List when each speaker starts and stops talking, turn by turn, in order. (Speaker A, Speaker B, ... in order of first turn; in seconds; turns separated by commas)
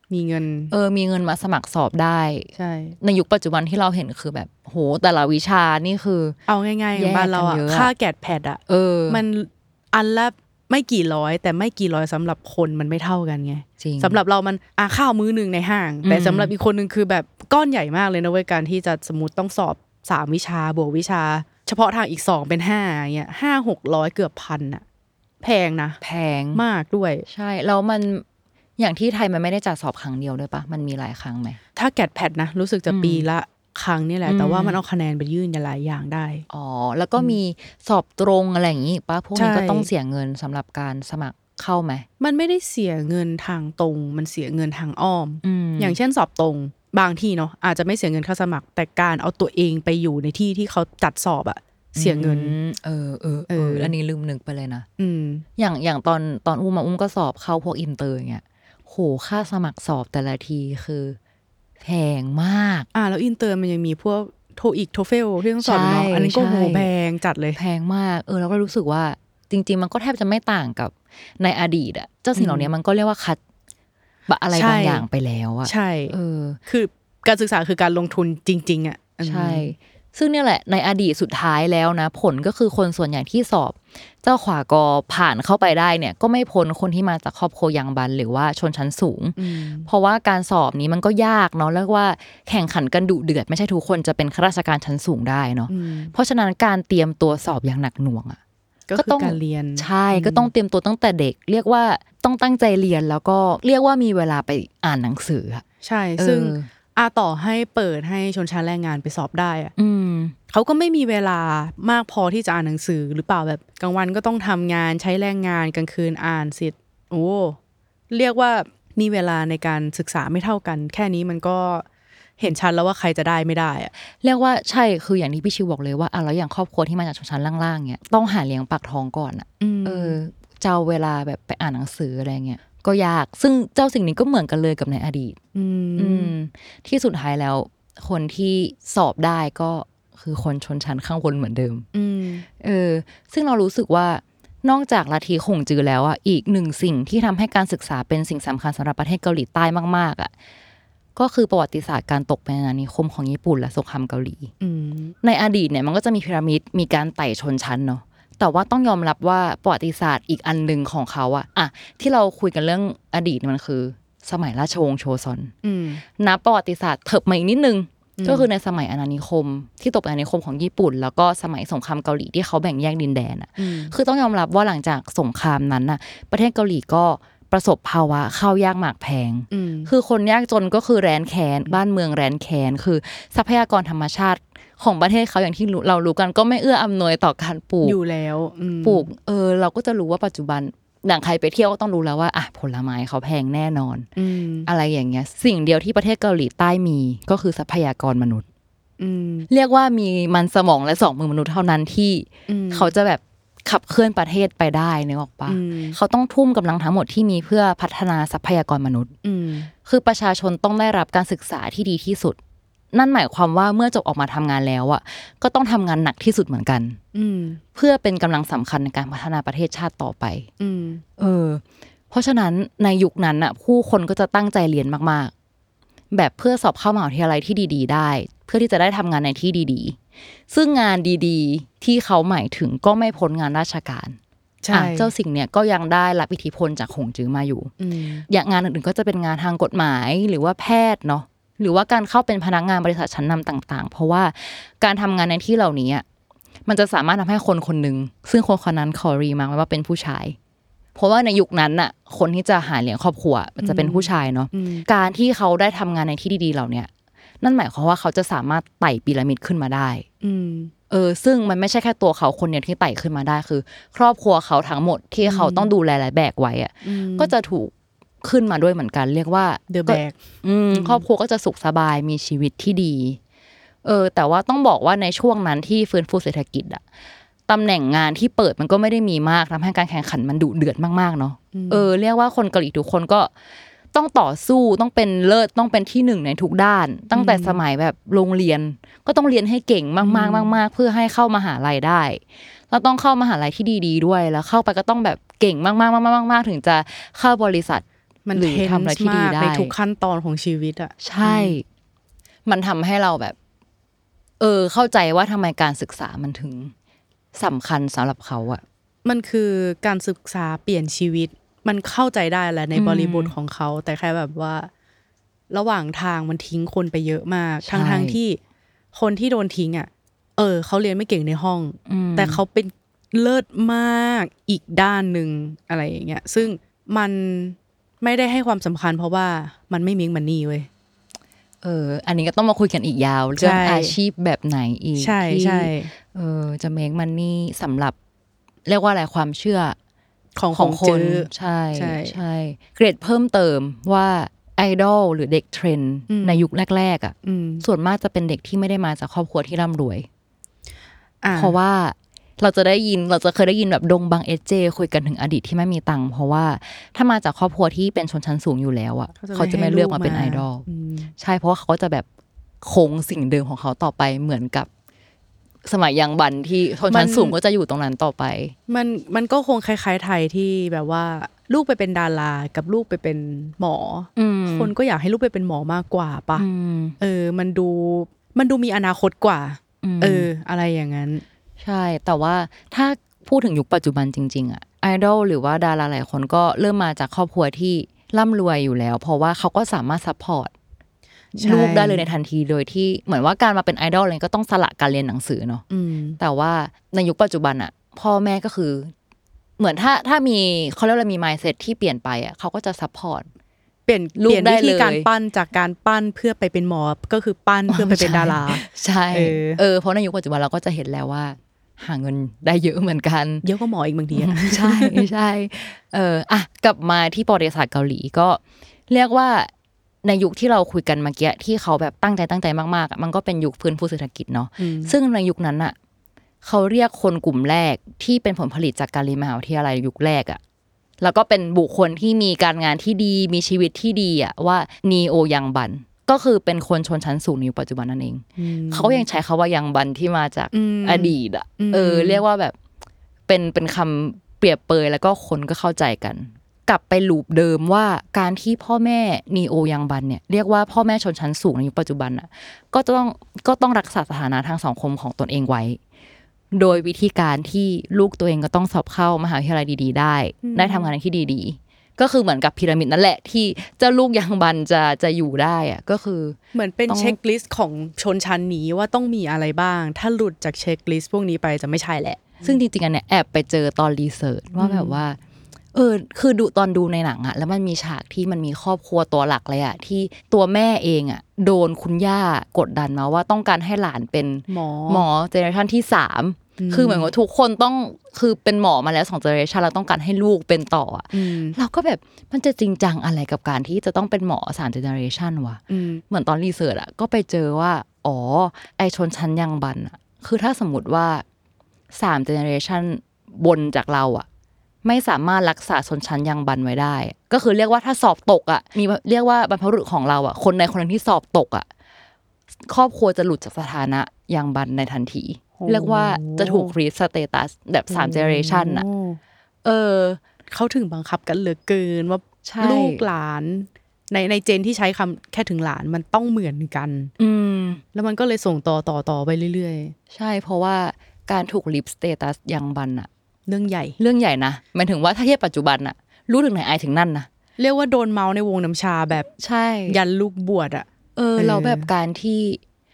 Speaker A: 0.1-0.7, Speaker B: 0.7-2.5, Speaker A: 2.5-3.0, Speaker B: 3.0-6.3, Speaker A: 6.5-24.8, Speaker B: 6.9-7.9, Speaker B: 8.7-9.2, Speaker B: 13.8-14.2, Speaker B: 16.0-16.5, Speaker A: 25.4-26.0, Speaker B: 26.0-26.6, Speaker A: 26.5-27.2, Speaker B: 27.3-28.2, Speaker B: 28.8-31.6, Speaker A: 31.8-36.4, Speaker B: 32.9-33.3, Speaker B: 34.2-34.8, Speaker B: 36.5-42.0, Speaker A: 39.3-39.9, Speaker A: 42.2-52.5, Speaker B: 45.4-46.0, Speaker B: 51.9-54.9, Speaker A: 53.5-53.9, Speaker A: 55.0-55.5, Speaker B: 55.6-61.2, Speaker B: 61.8-62.9, Speaker A: 62.9-67.6, Speaker B: 65.6-66.9, Speaker B: 67.5-73.4, Speaker A: 72.3-72.7, Speaker B: 74.3-76.6, Speaker A: 74.5-75.0, Speaker A: 75.6-76.1, Speaker A: 76.7-79.7, Speaker B: 79.2-98.4, Speaker A: 89.3-89.9, Speaker A: 95.7-96.1, Speaker A: 98.9-100.5, Speaker B: 99.0-105.6, Speaker A: 105.8-109.7, Speaker B: 106.2-106.7, Speaker B: 109.8-110.3, Speaker A: 110.5-117.6, Speaker A: 118.1-121.8, Speaker A: 122.4-123.9, Speaker B: 124.2-135.4, Speaker A: 129.6-130.2, Speaker A: 135.5-136.3, Speaker B: 136.0-141.8, Speaker A: 141.9-142.4, Speaker B: 142.6-150.3, Speaker B: 151.2-154.5, Speaker A: 154.6-155.1, Speaker B: 155.2-165.5, Speaker A: 165.6-166.0, Speaker B: 166.2-188.0, Speaker A: 168.2-168.5, Speaker A: 173.6-173.9, Speaker A: 179.5-179.9, Speaker A: 187.8-189.1, Speaker B: 188.8-194.1, Speaker A: 194.2-194.7, Speaker B: 194.7-198.4, Speaker A: 199.0-199.5, Speaker B: 199.5-209.1, Speaker A: 202.5-202.9, Speaker A: 205.5-206.0, Speaker A: 209.2-209.7, Speaker B: 209.8-212.4, Speaker B: 212.9-217.0, Speaker A: 217.1-217.6, Speaker B: 217.7-220.5, Speaker A: 220.6-221.0, Speaker B: 221.2-225.3, Speaker B: 226.1-230.0, Speaker B: 230.5-234.2, Speaker A: 234.6-235.1, Speaker B: 234.7-237.7, Speaker A: 237.8-238.2, Speaker B: 238.3-246.0, Speaker B: 246.7-250.3, Speaker B: 250.9-256.9, Speaker A: 253.6-254.8, Speaker B: 257.4-260.1, Speaker A: 260.2-260.7, Speaker B: 260.9-267.7, Speaker A: 265.2-265.7, Speaker A: 266.8-267.3, Speaker B: 268.2-273.2, Speaker A: 269.7-270.2, Speaker A: 270.7-271.0, Speaker B: 273.8-276.8, Speaker B: 277.5-283.3, Speaker A: 281.5-281.9, Speaker B: 283.9-299.7, Speaker A: 287.1-287.6, Speaker A: 290.0-290.6, Speaker A: 298.2-301.6, Speaker B: 301.0-301.6, Speaker B: 302.4-303.4, Speaker B: 304.4-306.7, Speaker B: 307.3-308.6, Speaker A: 309.0-314.7, Speaker B: 312.7-313.3, Speaker A: 315.5-318.4, Speaker B: 317.6-318.2, Speaker A: 318.9-330.7, Speaker B: 321.9-322.4, Speaker B: 331.6-337.9, Speaker A: 333.4-333.9, Speaker A: 335.0-335.9, Speaker B: 338.6-339.8, Speaker A: 340.4-342.2, Speaker B: 340.5-350.1, Speaker A: 346.1-346.5, Speaker A: 347.2-347.6, Speaker A: 351.2-351.6, Speaker B: 351.3-360.6, Speaker A: 359.2-361.1, Speaker B: 361.2-362.1, Speaker B: 362.6-364.7, Speaker B: 365.6-368.5, Speaker A: 366.9-367.4, Speaker A: 368.7-376.4, Speaker B: 374.1-374.7, Speaker B: 376.4-376.9, Speaker A: 377.0-381.2, Speaker B: 379.8-380.3, Speaker B: 381.6-390.5, Speaker A: 391.4-392.0, Speaker B: 391.4-395.6, Speaker A: 395.7-396.2, Speaker B: 396.2-398.9, Speaker B: 399.6-403.3, Speaker A: 403.9-409.6, Speaker B: 404.2-405.1, Speaker B: 407.7-413.4, Speaker A: 413.4-415.1, Speaker B: 414.1-419.5, Speaker B: 420.0-425.7, Speaker A: 424.6-424.9, Speaker B: 426.4-430.4, Speaker B: 431.0-442.5, Speaker A: 438.4-439.0, Speaker A: 440.5-442.2, Speaker B: 443.3-455.8, Speaker B: 456.5-466.4, Speaker A: 460.4-460.9, Speaker A: 466.5-472.6, Speaker B: 466.9-467.2, Speaker B: 472.4-475.2, Speaker A: 474.6-474.9, Speaker B: 475.7-501.2, Speaker A: 484.5-485.1, Speaker A: 486.6-487.1, Speaker A: 491.1-491.6, Speaker A: 495.7-496.0, Speaker B: 501.9-504.2, Speaker B: 504.8-511.6, Speaker B: 512.7-518.8, Speaker A: 515.6-516.7, Speaker A: 517.9-519.2, Speaker B: 519.6-520.2, Speaker A: 520.5-527.1, Speaker B: 522.4-523.0, Speaker B: 527.2-527.8, Speaker A: 527.9-529.9, Speaker B: 530.1-533.1, Speaker A: 533.5-534.0, Speaker B: 534.0-537.3, Speaker A: 537.6-539.3, Speaker B: 539.4-540.0, Speaker A: 539.9-541.9, Speaker B: 541.1-542.6